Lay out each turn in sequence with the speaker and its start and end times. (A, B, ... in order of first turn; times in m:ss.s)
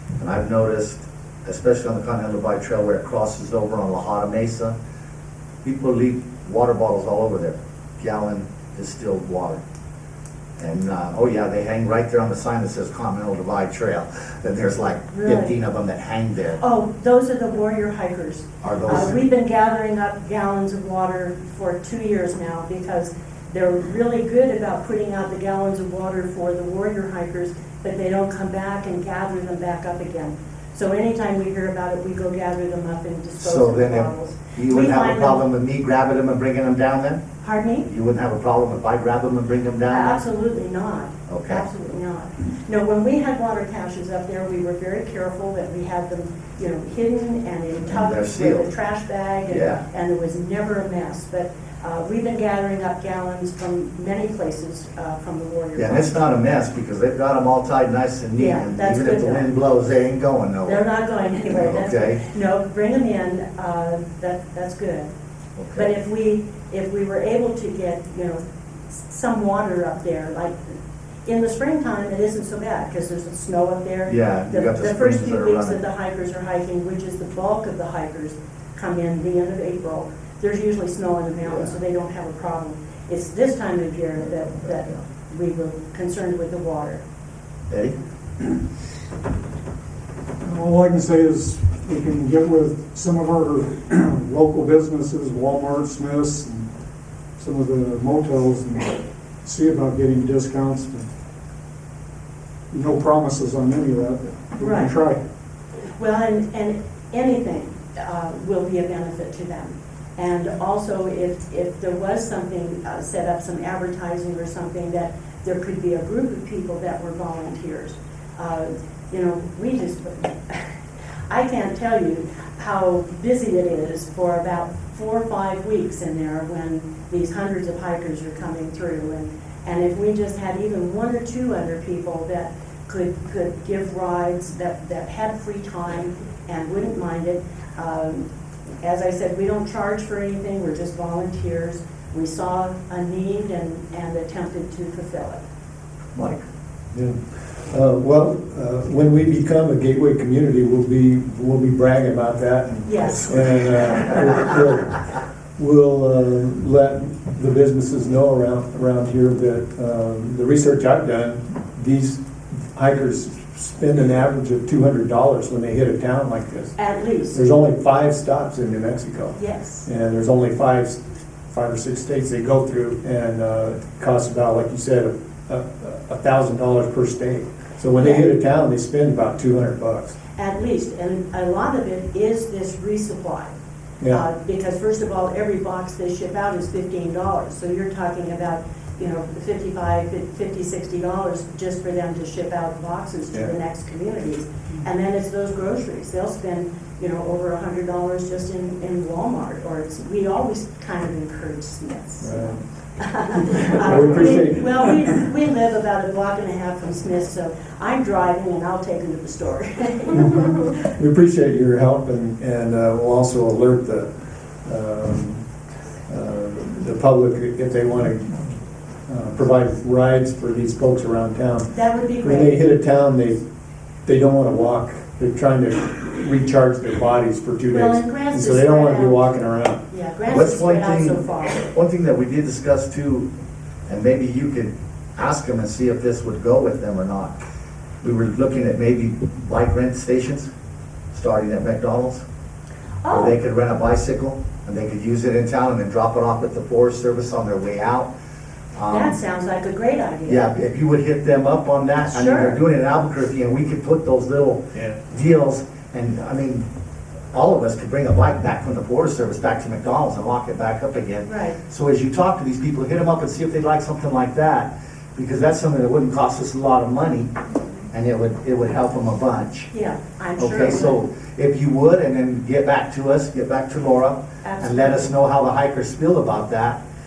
0:00.2-0:04.8 A
0:05.6-0:09.6 A
0:10.6-0:16.6 A
0:15.1-0:15.5 B
0:16.6-0:35.4 B
0:18.6-0:19.2 A
0:33.4-0:37.2 A
0:37.4-0:37.9 B
0:37.9-0:40.2 A
0:39.9-0:56.1 B
0:41.3-0:41.6 A
0:47.9-0:48.7 A
0:49.5-0:49.8 A
0:55.8-1:00.8 A
0:58.4-0:59.4 B
1:00.7-1:05.1 B
1:01.5-1:02.2 A
1:05.6-1:05.9 A
1:05.8-1:08.4 B
1:08.9-1:10.7 B
1:11.3-1:27.0 B
1:14.1-1:15.8 A
1:27.7-1:28.0 A
1:30.4-1:36.7 C
1:37.4-1:41.1 C
1:42.7-1:45.2 C
1:44.6-1:45.0 B
1:46.0-2:00.6 B
2:01.3-2:18.3 B
2:18.8-2:25.4 B
2:26.2-2:26.4 A
2:27.7-2:35.0 D
2:32.8-2:33.4 B
2:35.6-2:46.8 D
2:46.8-2:47.4 B
2:47.3-2:51.0 D
2:49.4-2:49.9 B
2:51.5-3:00.2 D
2:58.0-2:58.3 B
3:00.4-3:03.6 B
3:04.1-3:30.6 B
3:22.2-3:22.6 D
3:23.7-3:24.8 D
3:30.2-3:34.1 D
3:34.6-3:35.4 D
3:36.1-3:38.6 D
3:39.1-3:43.4 D
3:41.7-3:42.8 B
3:44.1-3:49.8 D
3:47.7-3:49.2 B
3:49.9-3:51.6 B
3:50.3-3:53.3 A
3:53.9-3:57.4 A
3:58.0-4:00.5 A
4:01.1-4:02.2 A
4:03.0-4:03.4 B
4:03.1-4:08.1 A
4:08.8-4:09.2 A
4:08.9-4:10.5 B
4:10.3-4:16.6 A
4:12.0-4:12.6 B
4:17.3-4:27.3 A
4:21.3-4:21.6 B
4:27.9-4:29.7 A
4:29.7-4:31.0 B
4:30.4-4:36.8 A
4:34.4-4:35.1 B